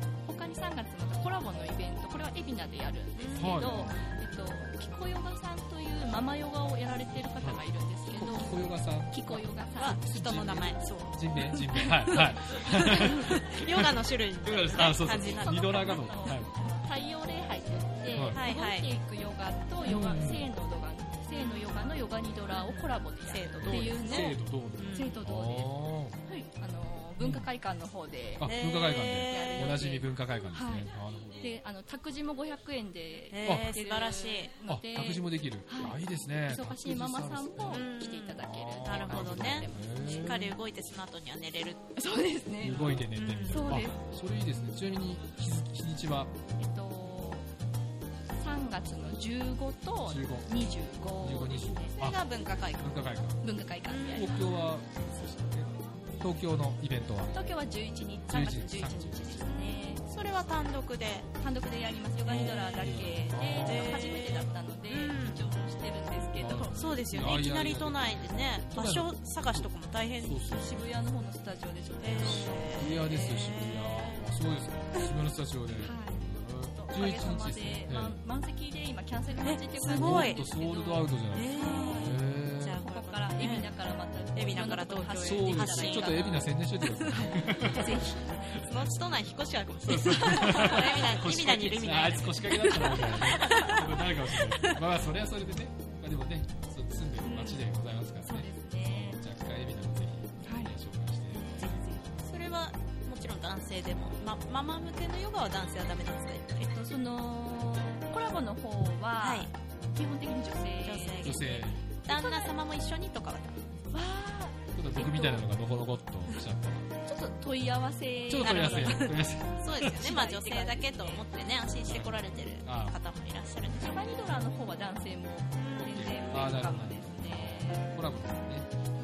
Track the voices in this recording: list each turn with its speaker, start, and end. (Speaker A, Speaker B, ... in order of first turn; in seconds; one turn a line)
Speaker A: 0.2-8.6
Speaker B: 3.2-3.8
Speaker C: 3.4-4.1
Speaker C: 8.1-13.9
Speaker A: 9.1-10.0
Speaker B: 9.8-16.2
Speaker C: 14.4-16.6
Speaker A: 15.4-24.4
Speaker C: 18.1-18.4
Speaker B: 18.3-18.9
Speaker C: 19.9-20.5
Speaker B: 21.3-21.8
Speaker B: 22.5-25.1
Speaker C: 23.6-26.2
Speaker A: 24.9-28.5
Speaker C: 27.2-27.5
Speaker C: 28.4-31.6
Speaker B: 28.4-29.8
Speaker A: 29.2-30.9
Speaker A: 31.4-40.5
Speaker B: 33.3-34.5
Speaker C: 33.4-33.8
Speaker C: 34.7-37.9
Speaker B: 37.7-42.0
Speaker C: 38.4-40.6
Speaker A: 42.0-44.0
Speaker C: 42.6-46.4
Speaker B: 42.9-43.8
Speaker A: 46.6-47.5
Speaker A: 48.4-52.1
Speaker C: 50.1-50.6
Speaker C: 51.2-52.2
Speaker B: 52.0-53.0
Speaker C: 52.8-53.5
Speaker A: 53.4-54.5
Speaker B: 53.9-54.5
Speaker C: 54.1-57.3
Speaker A: 57.3-60.0
Speaker C: 58.3-59.6
Speaker B: 60.1-61.3
Speaker A: 61.4-66.8
Speaker C: 62.3-64.0
Speaker B: 63.6-65.5
Speaker C: 66.4-70.9
Speaker B: 66.6-70.5
Speaker A: 70.5-73.4
Speaker B: 72.0-74.1
Speaker C: 72.1-78.2
Speaker A: 75.8-82.2
Speaker B: 79.4-80.4
Speaker C: 79.9-82.8
Speaker B: 81.3-83.7
Speaker A: 82.8-86.5
Speaker C: 84.2-84.7
Speaker B: 84.3-86.5
Speaker C: 85.2-88.7
Speaker B: 87.0-94.8
Speaker A: 87.1-88.5
Speaker C: 89.8-101.9
Speaker A: 90.1-91.0
Speaker A: 92.4-94.4
Speaker B: 97.3-97.6
Speaker A: 97.3-97.6
Speaker A: 98.2-99.2
Speaker A: 100.5-100.7
Speaker A: 101.3-101.8
Speaker B: 101.6-106.7
Speaker A: 106.6-112.5
Speaker B: 109.2-109.5
Speaker B: 110.8-111.5
Speaker C: 111.2-111.8
Speaker B: 112.0-113.8
Speaker A: 113.9-115.5
Speaker C: 114.8-116.9
Speaker A: 117.1-119.1
Speaker C: 118.3-120.0
Speaker B: 118.4-124.2
Speaker A: 119.8-121.2
Speaker C: 121.8-123.0
Speaker A: 123.8-127.9
Speaker C: 125.8-128.7